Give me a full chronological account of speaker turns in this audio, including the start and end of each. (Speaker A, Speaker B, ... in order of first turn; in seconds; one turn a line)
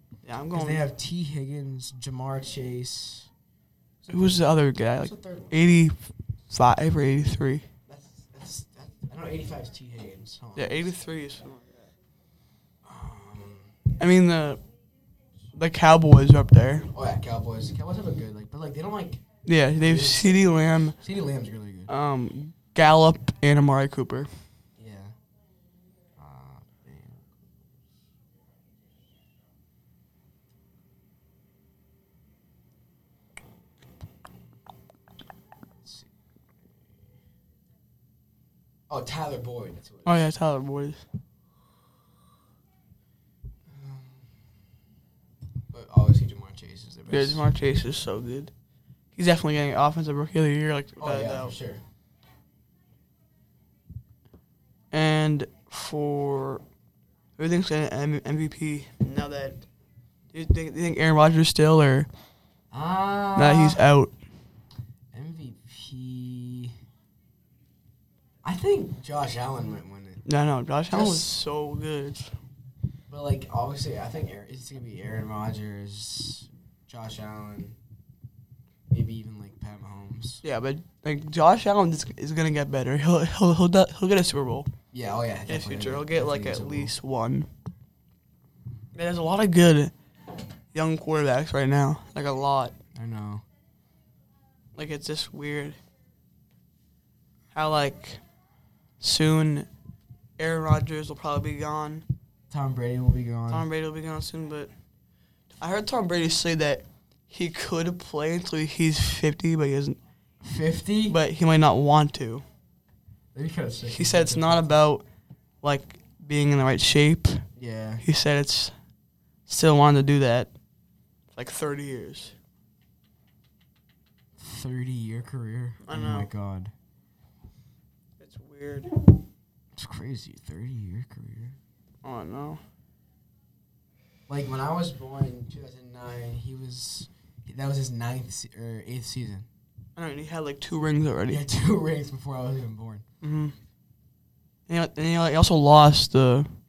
Speaker A: 0.2-0.8
Speaker B: 0.5-3.3
Speaker B: 4.0-5.6
Speaker A: 4.1-7.6
Speaker B: 7.9-10.9
Speaker A: 10.6-11.9
Speaker B: 12.8-13.7
Speaker A: 14.0-14.6
Speaker A: 15.5-16.9
Speaker B: 16.9-19.2
Speaker A: 19.4-20.9
Speaker B: 19.8-21.9
Speaker A: 21.9-24.3
Speaker B: 24.8-25.1
Speaker B: 26.1-27.3
Speaker B: 35.8-36.1
Speaker B: 38.9-40.3
Speaker A: 40.0-41.0
Speaker B: 43.6-44.3
Speaker B: 45.7-47.4
Speaker A: 47.1-48.5
Speaker A: 49.1-51.5
Speaker B: 51.0-51.8
Speaker A: 54.9-56.6
Speaker A: 57.4-59.6
Speaker A: 60.3-62.1
Speaker B: 62.7-63.9
Speaker A: 63.4-64.1
Speaker B: 65.1-66.7
Speaker B: 68.4-70.2
Speaker A: 70.2-72.3
Speaker B: 70.9-71.4
Speaker B: 73.1-77.8
Speaker B: 78.9-80.4
Speaker A: 80.4-84.7
Speaker B: 84.9-86.9
Speaker A: 85.5-87.5
Speaker A: 88.9-89.9
Speaker A: 90.7-92.7
Speaker B: 92.9-93.4
Speaker A: 94.7-95.8
Speaker A: 97.5-98.2
Speaker A: 99.0-99.7
Speaker A: 100.4-102.0
Speaker B: 102.5-103.7
Speaker A: 103.5-104.7
Speaker A: 105.6-110.0
Speaker B: 110.4-111.2
Speaker A: 111.1-112.4
Speaker B: 113.3-114.8
Speaker A: 113.9-115.0
Speaker A: 115.6-117.4
Speaker B: 117.5-118.0
Speaker A: 118.0-118.7
Speaker A: 119.5-120.5
Speaker A: 121.3-122.3
Speaker B: 124.4-126.7
Speaker A: 125.8-126.3
Speaker A: 128.2-128.9
Speaker B: 129.8-131.6
Speaker A: 132.0-132.6
Speaker B: 134.3-139.5
Speaker A: 139.9-141.4
Speaker B: 141.2-143.0
Speaker A: 143.2-143.5
Speaker A: 144.7-146.5